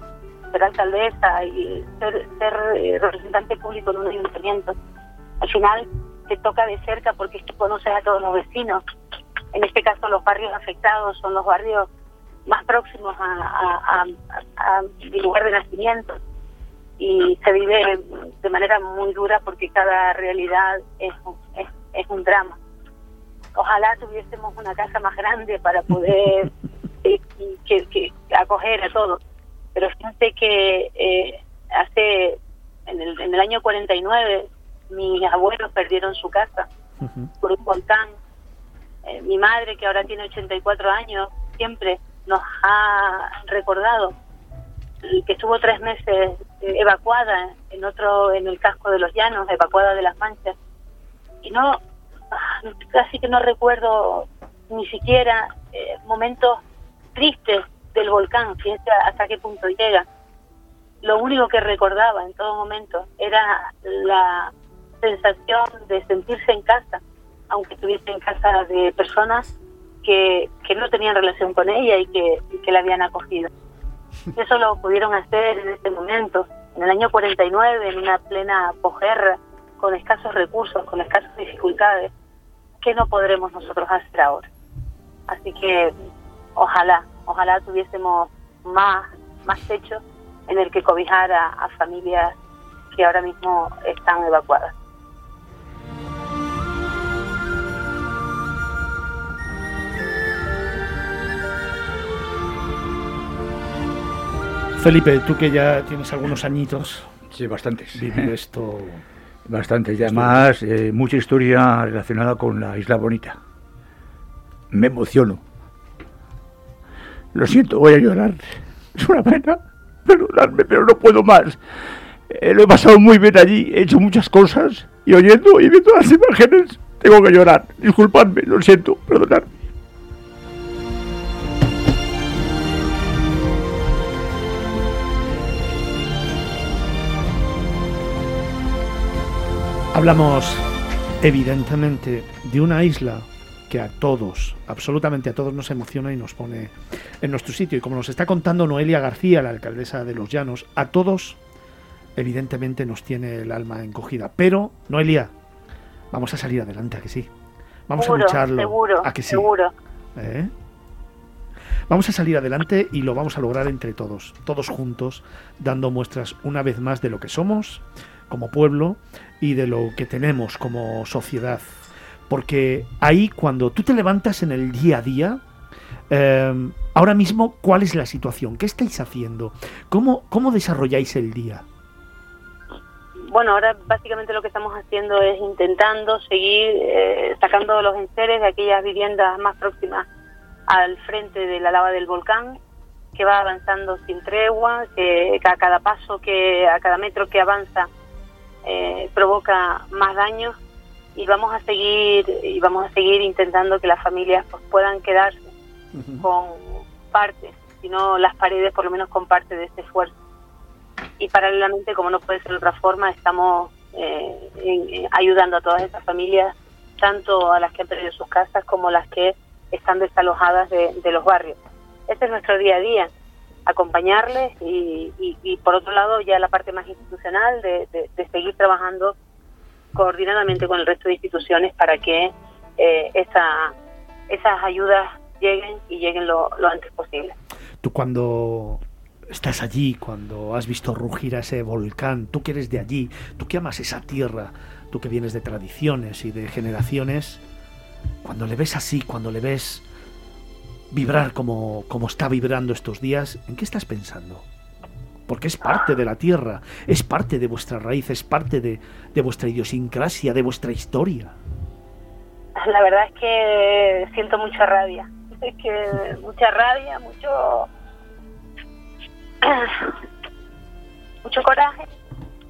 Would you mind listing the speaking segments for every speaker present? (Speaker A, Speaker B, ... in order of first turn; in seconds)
Speaker A: 0.5-4.8, 5.4-8.8, 9.5-11.9, 12.4-16.2, 17.0-22.6, 23.5-29.2, 29.7-36.7, 37.4-38.1, 39.0-44.1, 45.0-50.5, 51.4-51.8, 52.3-56.6, 57.1-60.0, 61.0-73.5, 74.3-82.1, 82.8-84.5, 85.3-85.9, 86.5-92.3, 92.9-94.7, 158.0-159.7, 183.3-190.1, 190.7-192.6, 193.1-197.9, 198.6-200.6, 201.1-205.5, 206.2-210.1, 211.2-223.1, 223.7-229.1, 229.9-233.7, 234.3-237.3, 262.6-267.7, 269.4-269.9, 271.2-271.9
Speaker B: 37.0-37.3, 104.8-107.1, 107.9-109.0, 110.0-110.5, 139.9-140.7, 141.2-151.4, 152.2-155.3, 156.1-157.3, 157.9-159.5, 160.2-160.5, 161.9-175.4, 176.1-181.6, 205.9-206.2, 237.8-247.4, 248.2-249.8, 250.9-254.4, 255.3-261.4
Speaker C: 107.3-108.3, 109.4-113.4, 114.7-115.4, 117.3-121.6, 122.3-129.6